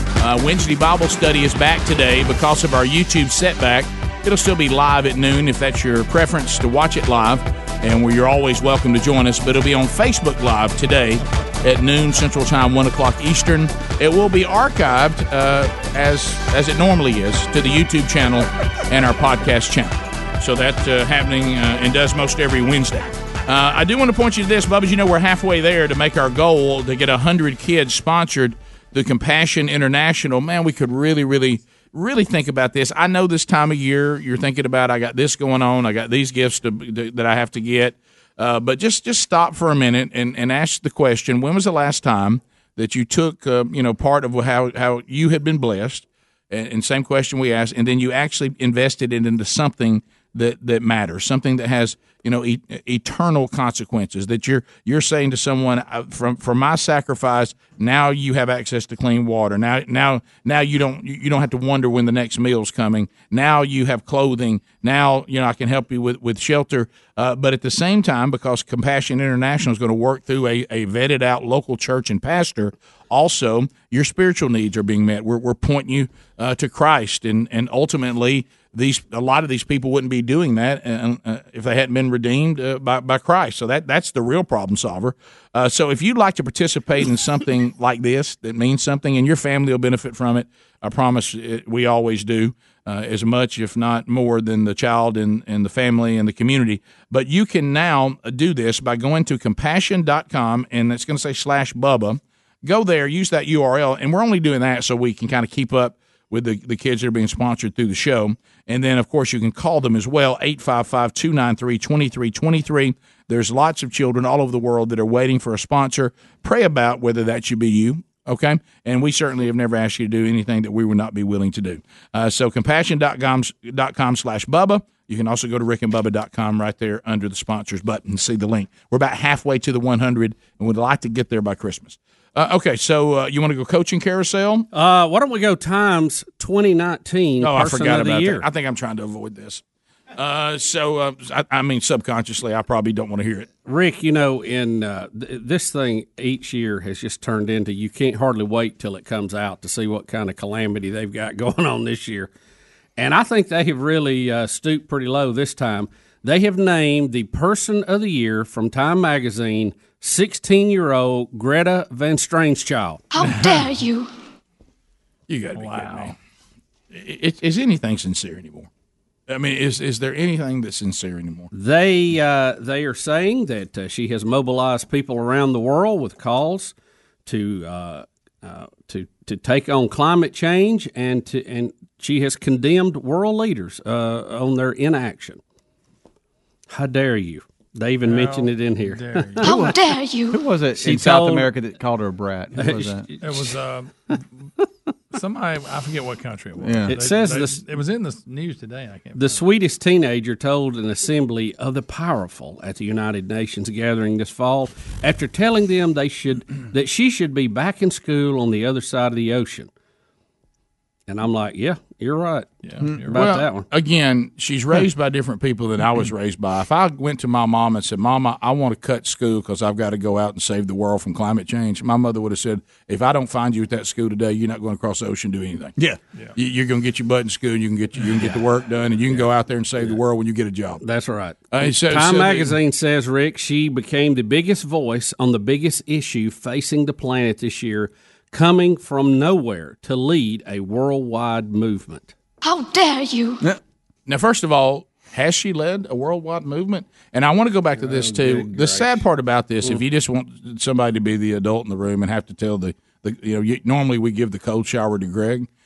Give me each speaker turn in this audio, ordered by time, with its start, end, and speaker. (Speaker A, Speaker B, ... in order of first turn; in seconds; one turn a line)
Speaker A: 0.2-134.7
Speaker B: 134.7-138.5
Speaker A: 137.4-139.6
Speaker A: 140.2-143.5
Speaker B: 143.7-152.3
Speaker B: 153.0-163.0
Speaker C: 163.1-164.1
Speaker A: 165.3-166.2
Speaker D: 165.6-166.1
Speaker A: 166.9-168.7
Speaker A: 169.3-171.5
Speaker B: 171.5-176.7
Speaker B: 177.3-185.4
Speaker B: 186.7-189.7
Speaker D: 188.1-189.5
Speaker C: 189.4-190.5
Speaker E: 190.3-193.1
Speaker B: 190.8-191.5
Speaker B: 192.6-193.5
Speaker D: 193.2-193.9
Speaker D: 195.1-199.4
Speaker E: 196.6-197.0
Speaker B: 196.9-197.6
Speaker B: 199.2-209.7
Speaker B: 211.1-212.5
Speaker D: 212.6-213.2
Speaker B: 213.1-213.7
Speaker A: 213.1-225.8
Speaker A: 226.3-230.8
Speaker B: 230.8-242.1
Speaker A: 231.5-232.6
Speaker C: 242.4-243.4
Speaker A: 244.1-255.5
Speaker B: 248.0-248.8